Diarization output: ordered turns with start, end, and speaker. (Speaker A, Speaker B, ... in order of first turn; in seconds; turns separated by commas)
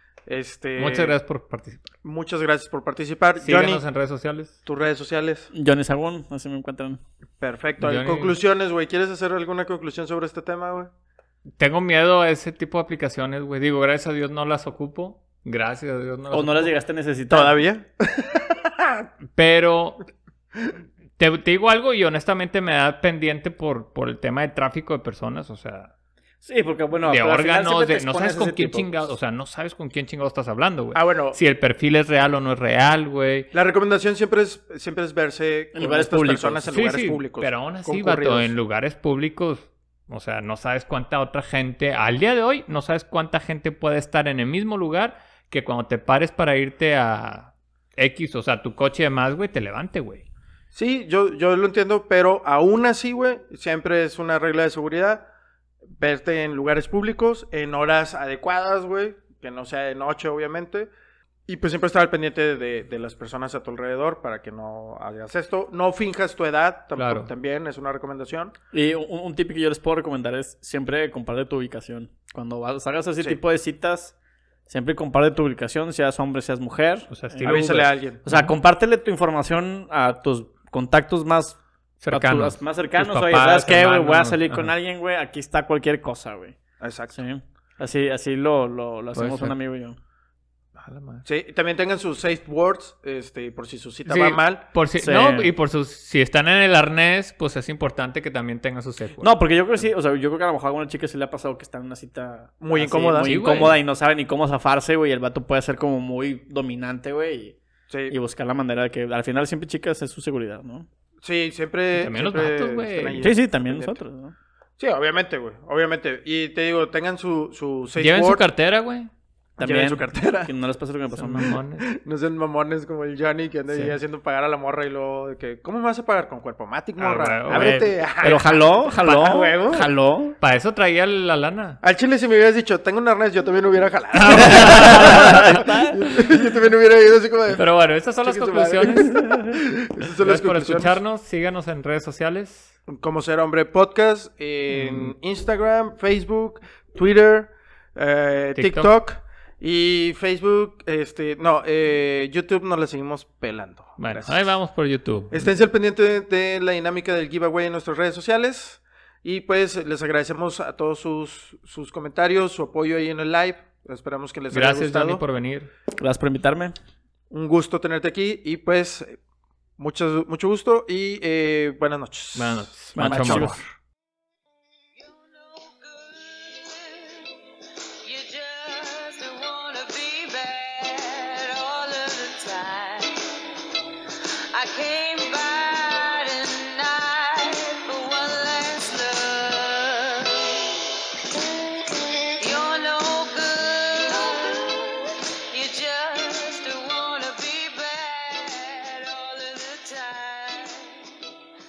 Speaker A: 0.3-1.2, Speaker B: 0.8-1.9, Speaker A: 2.0-3.8, Speaker B: 3.4-4.6, Speaker A: 4.7-5.5, Speaker C: 5.5-7.0, Speaker A: 7.4-10.9, Speaker B: 7.8-8.4, Speaker B: 11.6-16.8, Speaker C: 16.3-17.6, Speaker A: 17.3-19.1, Speaker B: 19.4-20.0, Speaker B: 21.2-25.9, Speaker C: 26.4-29.1, Speaker B: 27.0-33.5, Speaker A: 30.9-31.4, Speaker A: 33.5-38.5, Speaker C: 35.8-36.7, Speaker B: 36.7-50.2, Speaker A: 50.7-55.2, Speaker A: 56.0-60.9, Speaker A: 61.5-68.5, Speaker B: 67.0-67.3, Speaker C: 68.7-74.2, Speaker C: 74.7-81.6, Speaker B: 77.1-78.5, Speaker A: 77.5-78.2, Speaker B: 82.0-84.7, Speaker C: 82.1-86.6, Speaker A: 86.8-87.2, Speaker C: 87.1-90.0, Speaker B: 89.1-89.5, Speaker B: 90.8-91.2, Speaker A: 91.2-94.6, Speaker B: 94.1-99.4, Speaker C: 95.0-95.5, Speaker C: 99.2-107.6, Speaker A: 102.6-103.4, Speaker B: 103.2-103.8, Speaker A: 107.9-108.2, Speaker C: 108.1-110.9, Speaker A: 111.2-114.0, Speaker B: 111.9-113.3, Speaker C: 113.2-114.3, Speaker A: 114.8-118.4, Speaker B: 118.0-119.1, Speaker A: 119.6-120.5, Speaker C: 119.6-121.6, Speaker B: 121.1-121.8, Speaker A: 121.8-129.9, Speaker B: 123.7-124.0, Speaker B: 127.0-128.6, Speaker C: 127.5-130.4, Speaker B: 130.4-131.8, Speaker A: 131.8-137.6, Speaker B: 134.1-135.7, Speaker C: 134.4-136.0, Speaker B: 137.6-139.4, Speaker A: 138.2-141.0, Speaker B: 140.2-142.8, Speaker A: 142.9-154.6, Speaker B: 144.7-145.1, Speaker B: 148.6-148.9, Speaker B: 154.0-155.5, Speaker A: 155.3-165.2, Speaker B: 164.5-165.7, Speaker C: 165.9-166.8, Speaker A: 167.3-169.2, Speaker A: 169.8-173.6, Speaker B: 172.3-173.6, Speaker C: 172.9-173.6, Speaker D: 175.0-177.5, Speaker D: 178.0-183.4, Speaker D: 184.5-201.3